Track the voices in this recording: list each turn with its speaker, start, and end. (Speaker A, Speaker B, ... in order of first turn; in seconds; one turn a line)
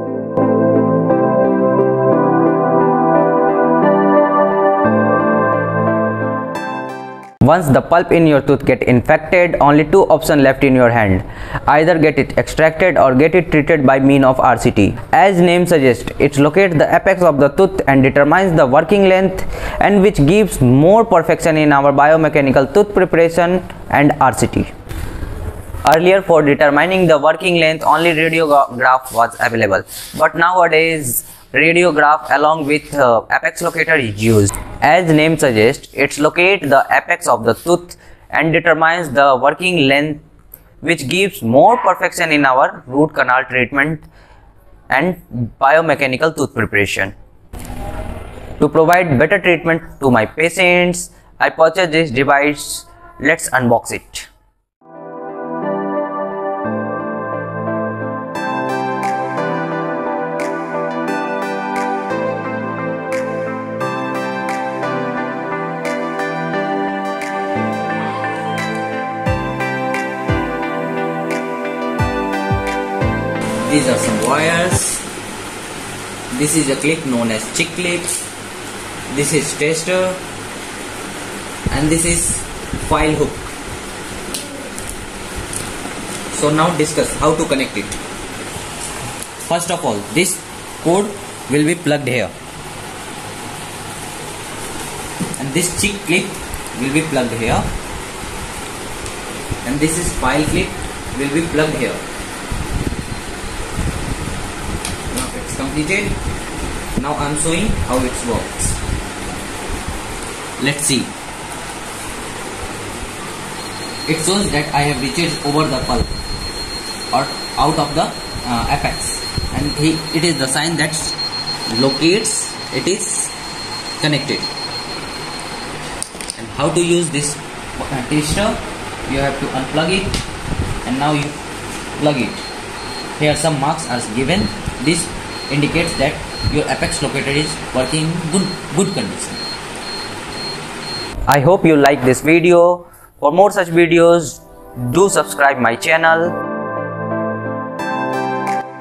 Speaker A: 7.4-24.7
Speaker A: 25.9-40.2
Speaker A: 40.8-44.1
Speaker A: 44.9-47.1
Speaker A: 48.6-54.3
Speaker A: 73.6-75.0
Speaker A: 76.3-78.2
Speaker A: 79.1-80.2
Speaker A: 81.7-83.5
Speaker A: 86.3-88.0
Speaker A: 89.5-92.3
Speaker A: 95.4-97.7
Speaker A: 99.6-102.0
Speaker A: 105.1-106.2
Speaker A: 107.0-108.8
Speaker A: 110.6-111.1
Speaker A: 114.1-116.1
Speaker A: 117.1-123.3
Speaker A: 124.0-124.5
Speaker A: 126.4-130.2
Speaker A: 130.8-131.4
Speaker A: 132.0-132.4
Speaker A: 133.2-139.4
Speaker A: 141.3-146.3